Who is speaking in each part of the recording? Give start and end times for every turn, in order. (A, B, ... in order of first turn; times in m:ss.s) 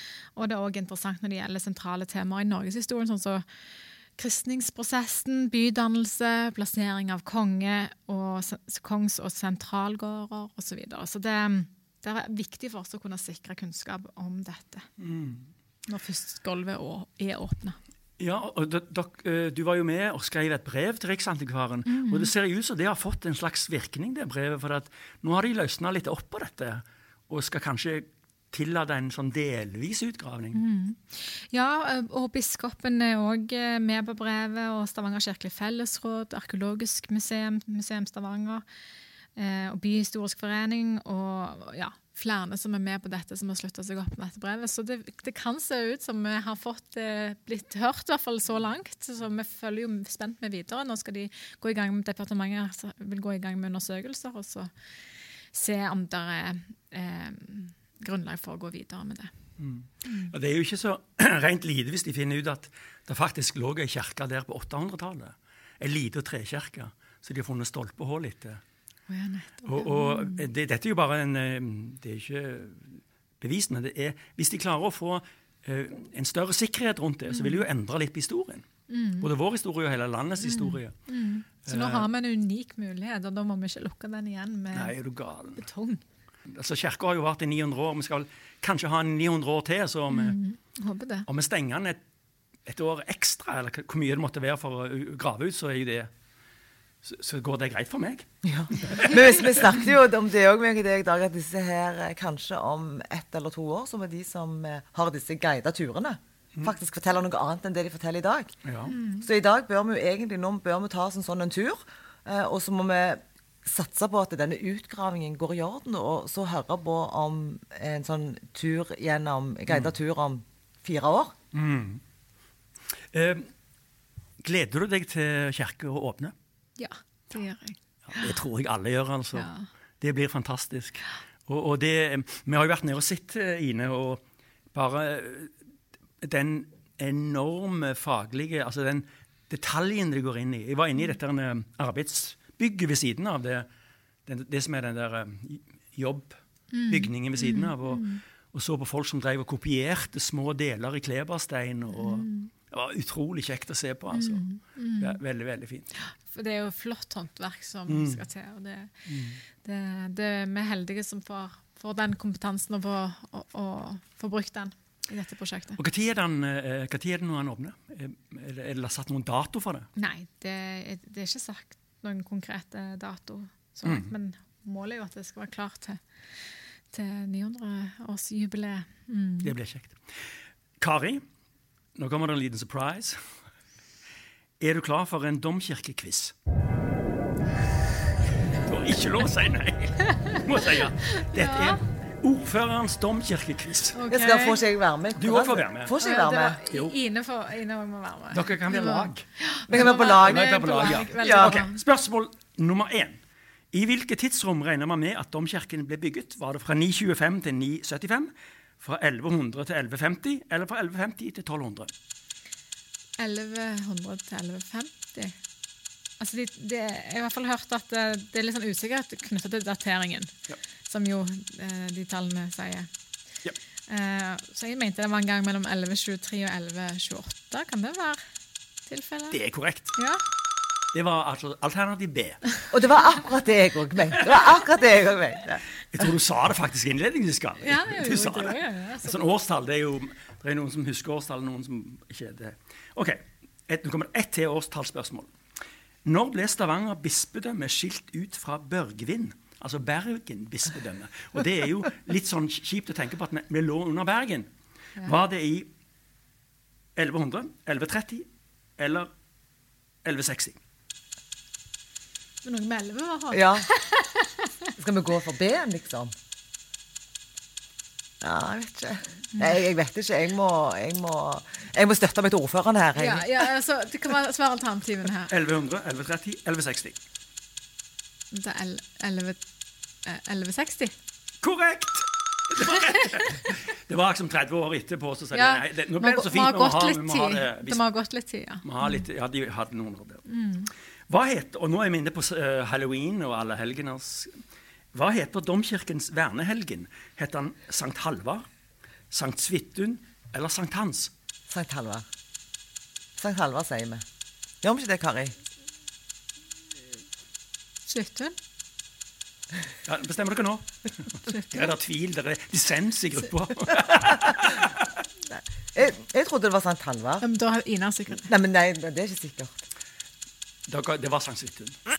0:00.3-0:03.4 A
0:04.2-0:14.9 A
0:15.0-0:15.5 B
0:15.9-0:17.8 A
0:18.2-0:30.6 B
0:21.9-0:22.3 A
0:30.5-0:38.6 A
0:39.3-0:54.7 A
0:55.5-0:59.3 A
0:59.6-1:08.6 B
1:00.0-1:00.3 A
1:09.1-1:10.5 A
1:09.6-1:18.6 B
1:17.3-1:17.6 A
1:18.9-1:19.3 A
1:19.2-1:21.0 B
1:20.4-1:24.9 A
1:21.6-1:22.1 B
1:24.7-1:25.6 B
1:25.5-1:26.0 A
1:26.5-1:30.4 B
1:30.1-1:31.2 A
1:31.3-1:32.0 B
1:32.6-1:36.1 B
1:37.0-1:38.2 B
1:38.4-1:48.6 C
1:38.8-1:39.6 B
1:48.6-1:48.9 B
1:48.9-1:49.3 A
1:49.2-2:01.3 C
2:01.5-2:02.0 B
2:03.1-2:03.5 B
2:04.4-2:06.3 B
2:06.8-2:08.3 A
2:08.1-2:09.5 B
2:09.3-2:09.7 A
2:10.0-2:14.2 B
2:14.7-2:15.5 B
2:16.2-2:23.7 B
2:24.2-2:26.4 B
2:26.7-2:28.2 A
2:26.9-2:34.4 B
2:31.9-2:32.5 A
2:34.1-2:35.2 A
2:35.0-2:35.9 B
2:35.9-2:45.8 A
2:37.9-2:38.2 B
2:39.0-2:39.4 B
2:45.8-2:49.9 B
2:50.0-2:56.0 A
2:53.8-2:54.1 B
2:56.9-2:59.5 A
2:59.4-3:00.0 B
3:00.8-3:01.2 B
3:02.0-3:03.2 B
3:04.6-3:06.3 B
3:08.6-3:14.0 B
3:11.1-3:11.8 A
3:13.9-3:14.6 A
3:14.1-3:16.6 C
3:15.2-3:16.0 B
3:16.0-3:21.8 A
3:16.6-3:16.9 B
3:18.3-3:23.2 B
3:19.7-3:20.5 C
3:21.1-3:21.6 C
3:23.7-3:31.9 B
3:33.2-3:35.4 A
3:36.2-3:42.9 A
3:43.9-3:48.2 A
3:48.8-3:49.4 A
3:49.3-3:49.9 B
3:49.9-3:50.2 A
3:50.9-3:52.4 B
3:52.7-3:55.6 C
3:55.9-4:05.3 B
3:57.6-3:59.3 A
4:06.0-4:14.5 B
4:15.0-4:15.7 B
4:17.0-4:18.2 B
4:18.8-4:19.1 B
4:20.0-4:20.6 B
4:22.4-4:24.7 A
4:23.3-4:23.7 C
4:24.8-4:26.1 C
4:28.2-4:33.4 C
4:32.9-4:35.3 A
4:35.3-4:37.0 B
4:38.3-4:39.4 A
4:40.0-4:40.9 A
4:41.4-4:47.8 B
4:45.3-4:49.0 A
4:48.6-4:50.2 B
4:50.2-4:50.7 A
4:51.1-4:54.4 B
4:54.9-4:58.4 B
4:59.1-5:01.1 B
5:01.5-5:02.0 C
5:03.2-5:04.0 C
5:04.6-5:05.4 C
5:07.8-5:08.4 A
5:09.8-5:14.9 B
5:11.2-5:11.7 A
5:15.3-5:17.2 C
5:17.2-5:18.3 A
5:18.2-5:19.6 C
5:20.7-5:21.8 B